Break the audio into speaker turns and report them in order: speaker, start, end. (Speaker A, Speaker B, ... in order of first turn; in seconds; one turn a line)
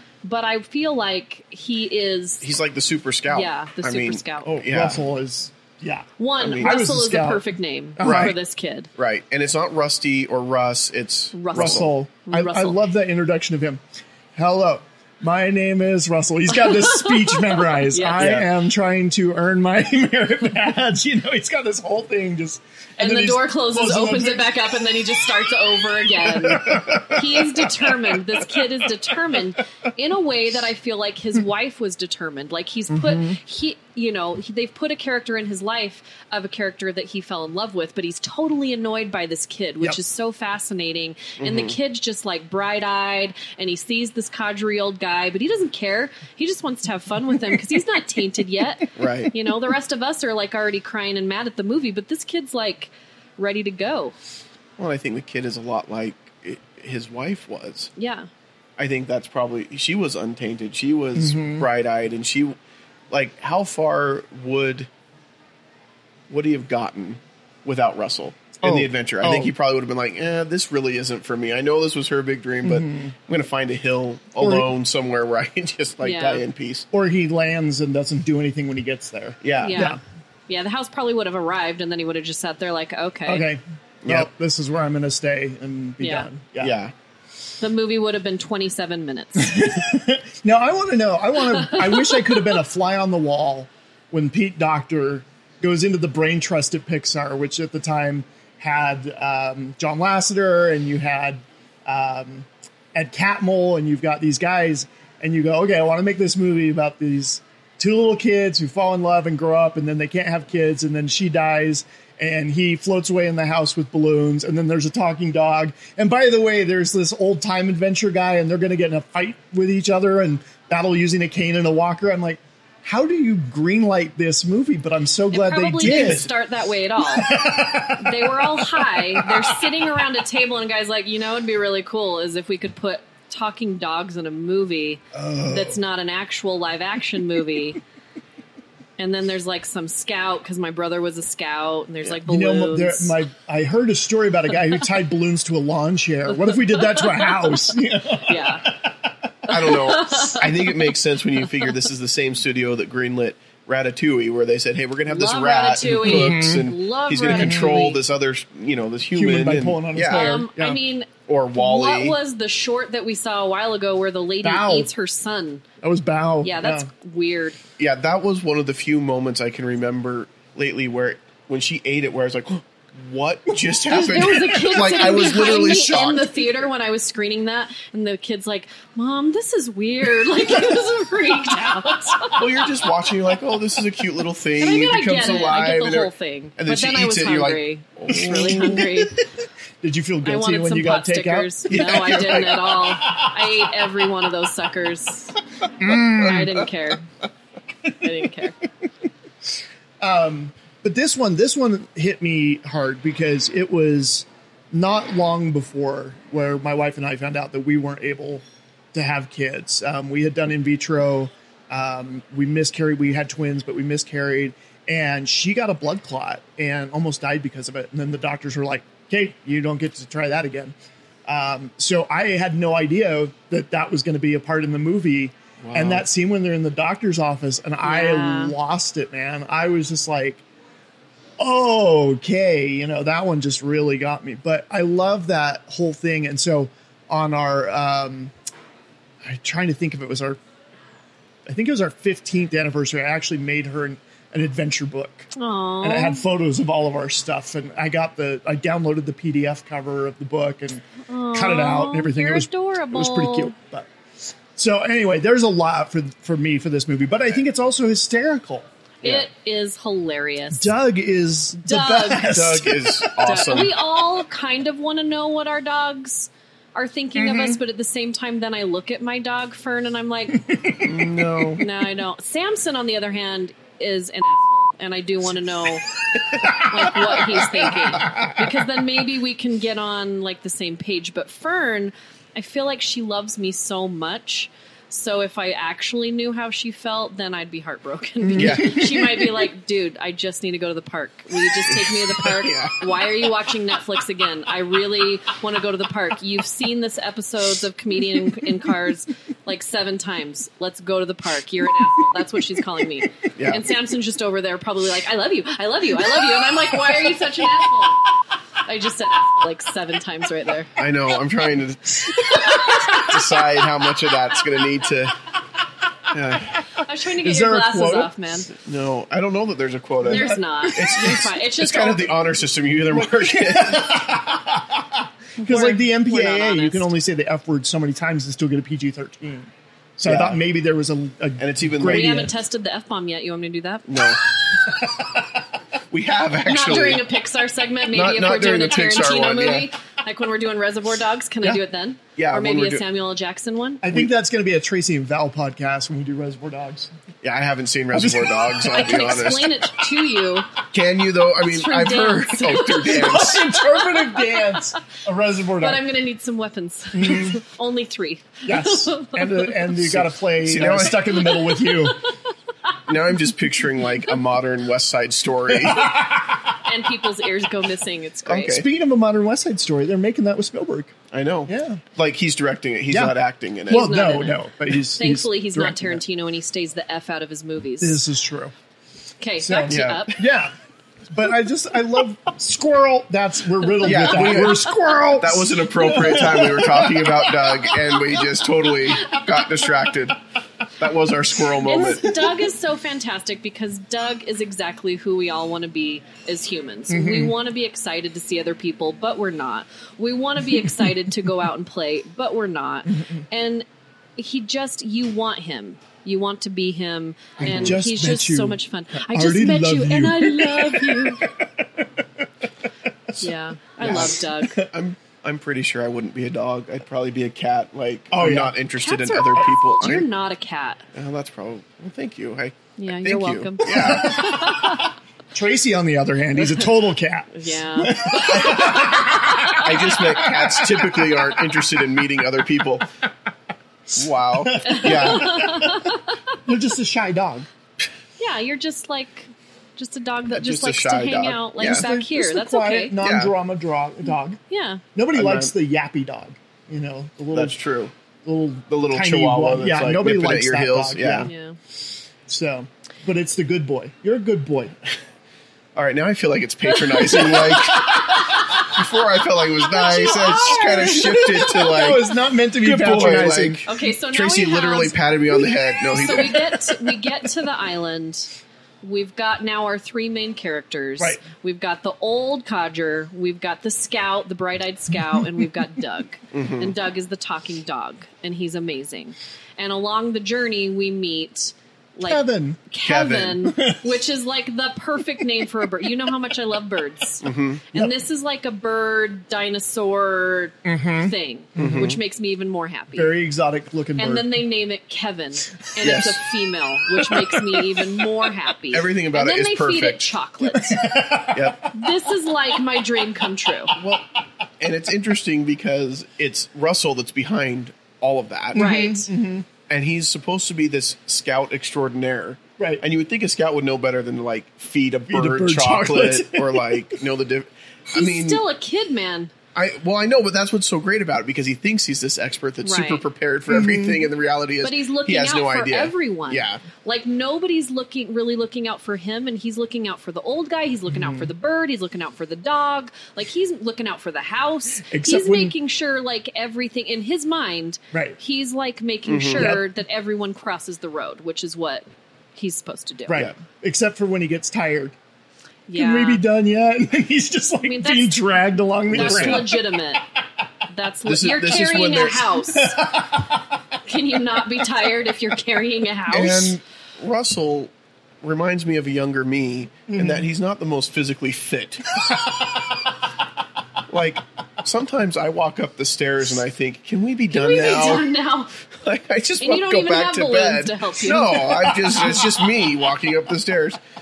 Speaker A: 0.2-2.5
Speaker B: 2.4-5.0
Speaker A: 3.3-4.6
Speaker C: 4.5-8.3
Speaker A: 6.2-8.9
Speaker B: 6.4-6.8
Speaker B: 8.0-8.4
Speaker B: 8.9-11.9
Speaker A: 11.3-12.8
Speaker C: 11.5-13.8
Speaker C: 14.3-24.6
Speaker A: 16.5-18.3
Speaker B: 18.2-18.5
Speaker A: 23.0-54.1
Speaker C: 26.1-28.7
Speaker C: 32.9-33.4
Speaker B: 41.4-41.8
Speaker B: 49.0-49.3
Speaker B: 54.8-57.9
Speaker A: 58.0-58.3
Speaker B: 58.8-62.5
Speaker C: 61.1-61.7
Speaker B: 63.1-64.9
Speaker B: 66.3-76.8
Speaker C: 68.6-69.5
Speaker C: 72.6-73.1
Speaker C: 74.4-74.7
Speaker A: 76.0-76.4
Speaker C: 76.9-80.0
Speaker B: 79.4-79.9
Speaker A: 79.6-83.5
Speaker C: 83.2-86.8
Speaker B: 84.0-84.3
Speaker A: 86.0-86.3
Speaker B: 86.6-86.9
Speaker A: 87.6-89.5
Speaker C: 89.3-126.3
Speaker A: 91.5-92.4
Speaker A: 125.3-127.4
Speaker B: 125.8-126.3
Speaker C: 127.0-129.8
Speaker A: 127.9-137.8
Speaker C: 135.1-135.8
Speaker A: 139.0-143.2
Speaker C: 142.2-149.3
Speaker A: 146.3-147.5
Speaker A: 148.2-148.7
Speaker A: 149.5-150.9
Speaker B: 149.5-160.4
Speaker A: 155.1-158.0
Speaker C: 155.9-156.7
Speaker C: 157.3-157.7
Speaker C: 159.1-160.8
Speaker A: 160.1-165.6
Speaker B: 161.2-162.2
Speaker C: 164.4-164.9
Speaker C: 165.8-166.9
Speaker A: 166.4-167.6
Speaker B: 167.8-176.5
Speaker A: 173.9-182.7
Speaker C: 174.2-174.7
Speaker B: 182.3-188.9
Speaker A: 184.6-189.2
Speaker C: 188.1-189.1
Speaker C: 189.8-192.6
Speaker A: 190.2-195.4
Speaker B: 191.7-192.8
Speaker C: 195.8-196.7
Speaker A: 196.1-197.0
Speaker A: 198.0-198.6
Speaker C: 200.0-220.7
Speaker C: 221.2-230.4
Speaker B: 225.6-226.0
Speaker A: 227.8-228.5
Speaker C: 231.4-238.3
Speaker C: 239.2-240.4
Speaker C: 241.4-245.3
Speaker A: 245.3-246.2
Speaker C: 245.8-253.9
Speaker A: 251.1-253.5
Speaker C: 254.5-258.7
Speaker B: 259.0-259.3
Speaker A: 259.0-260.7
Speaker C: 260.5-263.1
Speaker A: 261.5-262.4
Speaker B: 262.2-263.8
Speaker A: 263.2-270.4
Speaker C: 267.1-267.6
Speaker C: 270.4-271.0
Speaker B: 270.8-271.6
Speaker A: 271.6-275.9
Speaker C: 276.3-278.4
Speaker A: 276.5-308.1
Speaker C: 288.2-288.8
Speaker B: 288.3-289.3
Speaker B: 291.7-292.8
Speaker B: 303.3-303.6
Speaker A: 308.6-310.7
Speaker B: 310.8-315.2
Speaker A: 312.1-313.4
Speaker B: 316.1-316.6
Speaker A: 316.8-318.5
Speaker C: 317.2-318.1
Speaker B: 318.5-324.1
Speaker C: 320.0-321.0
Speaker A: 320.1-322.1
Speaker C: 322.9-332.3
Speaker A: 325.4-326.9
Speaker B: 330.1-330.4
Speaker B: 331.4-332.3
Speaker A: 331.8-334.1
Speaker B: 333.9-334.2
Speaker B: 335.9-337.0
Speaker A: 336.4-343.9
Speaker B: 337.9-339.7
Speaker B: 342.1-342.8
Speaker C: 343.8-346.9
Speaker B: 347.2-349.6
Speaker C: 347.9-348.5
Speaker A: 348.6-350.5
Speaker B: 350.7-353.5
Speaker A: 351.5-354.5
Speaker C: 352.8-355.8
Speaker A: 355.6-359.6
Speaker C: 356.9-357.4
Speaker C: 358.4-362.0
Speaker B: 359.8-361.4
Speaker B: 362.9-366.0
Speaker C: 365.5-366.6
Speaker A: 366.6-368.6
Speaker B: 368.2-368.6
Speaker C: 368.5-370.9
Speaker B: 371.1-373.9
Speaker C: 371.5-371.8
Speaker C: 372.9-376.0
Speaker A: 373.7-374.4
Speaker A: 374.9-378.0
Speaker C: 377.8-378.5
Speaker A: 379.2-380.2
Speaker C: 379.4-380.5
Speaker B: 379.7-380.1
Speaker C: 381.1-387.6
Speaker B: 383.8-390.2
Speaker B: 390.8-392.1
Speaker A: 391.6-403.6
Speaker C: 396.9-397.3
Speaker C: 402.9-403.2
Speaker A: 404.2-411.3
Speaker C: 407.4-412.0
Speaker B: 407.4-407.8
Speaker A: 413.2-414.6
Speaker C: 413.8-414.7
Speaker B: 413.8-420.1
Speaker C: 418.1-418.5
Speaker A: 418.8-420.8
Speaker B: 420.9-424.3
Speaker A: 422.8-424.9
Speaker C: 423.6-431.2
Speaker A: 427.3-429.7
Speaker B: 428.4-432.9
Speaker B: 433.9-435.5
Speaker C: 434.4-435.9
Speaker A: 434.6-436.2
Speaker C: 436.4-437.5
Speaker A: 438.2-443.0
Speaker B: 440.3-441.9
Speaker C: 441.6-444.4
Speaker B: 443.0-443.3
Speaker A: 444.5-444.8
Speaker C: 444.9-447.6
Speaker B: 445.1-445.5
Speaker B: 447.3-447.9
Speaker C: 448.2-451.3
Speaker B: 448.7-451.3
Speaker A: 451.2-451.6
Speaker C: 452.3-454.8
Speaker B: 455.7-466.6
Speaker A: 456.8-458.8
Speaker A: 459.6-461.8
Speaker C: 460.7-463.6
Speaker A: 463.6-465.0
Speaker A: 465.9-493.1
Speaker C: 475.1-475.4
Speaker B: 476.3-476.7
Speaker C: 482.0-482.6
Speaker B: 482.8-483.5
Speaker C: 483.5-483.8
Speaker B: 487.2-487.6
Speaker C: 490.6-491.9
Speaker B: 491.6-492.0
Speaker C: 492.9-494.3
Speaker A: 494.0-500.9
Speaker B: 495.8-496.2
Speaker C: 497.0-498.0
Speaker B: 498.7-500.2
Speaker C: 500.4-501.7
Speaker B: 501.3-501.7
Speaker A: 501.7-503.7
Speaker B: 503.8-504.0
Speaker B: 504.6-508.7
Speaker C: 508.5-509.5
Speaker A: 508.5-509.1
Speaker B: 509.7-518.4
Speaker C: 515.1-517.0
Speaker A: 517.9-519.3
Speaker B: 519.5-526.6
Speaker A: 522.6-523.0
Speaker C: 523.5-524.0
Speaker A: 524.6-541.8
Speaker C: 530.9-531.3
Speaker C: 534.9-535.5
Speaker C: 537.9-538.2
Speaker B: 539.0-539.5
Speaker C: 539.3-539.6
Speaker A: 542.4-543.3
Speaker C: 543.1-545.0
Speaker A: 545.7-546.2
Speaker C: 545.7-549.8
Speaker A: 547.6-548.2
Speaker B: 548.9-549.6
Speaker A: 548.9-550.0
Speaker A: 550.7-552.9
Speaker B: 551.0-552.4
Speaker C: 552.5-553.5
Speaker A: 553.8-556.6
Speaker B: 556.1-557.7
Speaker B: 558.2-562.0
Speaker C: 559.9-560.2
Speaker C: 562.0-562.3
Speaker B: 563.9-568.1
Speaker A: 567.3-568.5
Speaker B: 568.7-573.8
Speaker A: 569.4-571.9
Speaker C: 571.8-572.2